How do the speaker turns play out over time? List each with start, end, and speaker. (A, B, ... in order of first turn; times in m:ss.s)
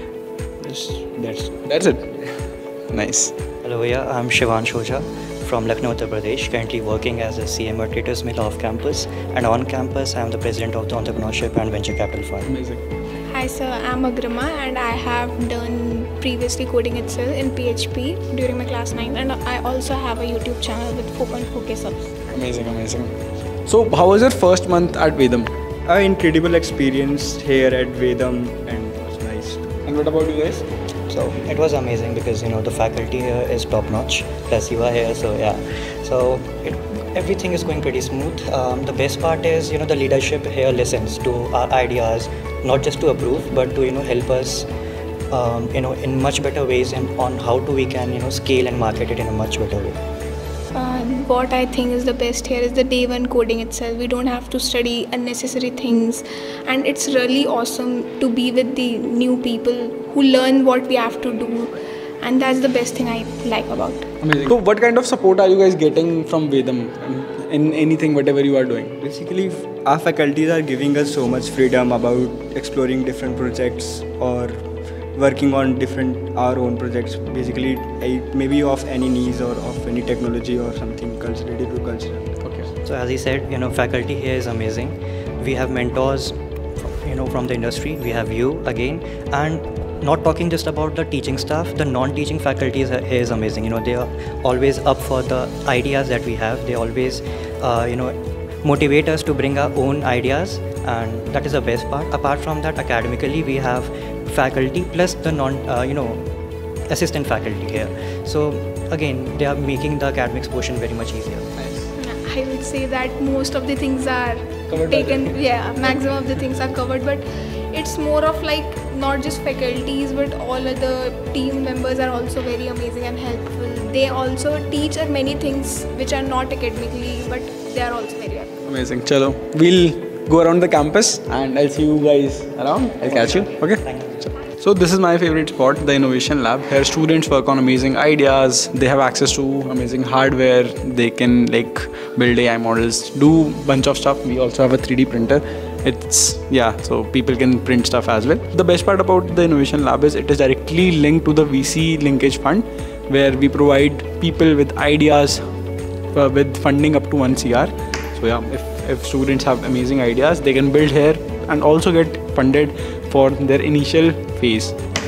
0:00.6-0:01.6 A
0:01.7-0:02.1 B
0:02.9-0:03.3 B
0:03.6-0:12.5 C
0:12.5-0:12.8 B
0:13.3-0:22.2 D
0:22.3-0:23.1 B
0:23.7-0:25.5 B
0:25.9-0:29.7 A
0:29.9-0:30.6 B
0:31.2-0:44.7 C
0:45.3-0:50.0 C
0:50.7-1:04.1 D
1:04.2-1:09.0 B
1:09.0-1:14.6 A
1:15.2-1:22.3 A
1:22.8-1:46.2 C
1:46.9-1:51.5 C
1:51.6-1:51.9 B
1:52.0-2:08.5 D
1:54.7-1:55.4 B
2:08.6-2:13.8 B
2:13.0-2:14.3 C
2:14.6-2:35.4 B
2:36.1-2:44.8 B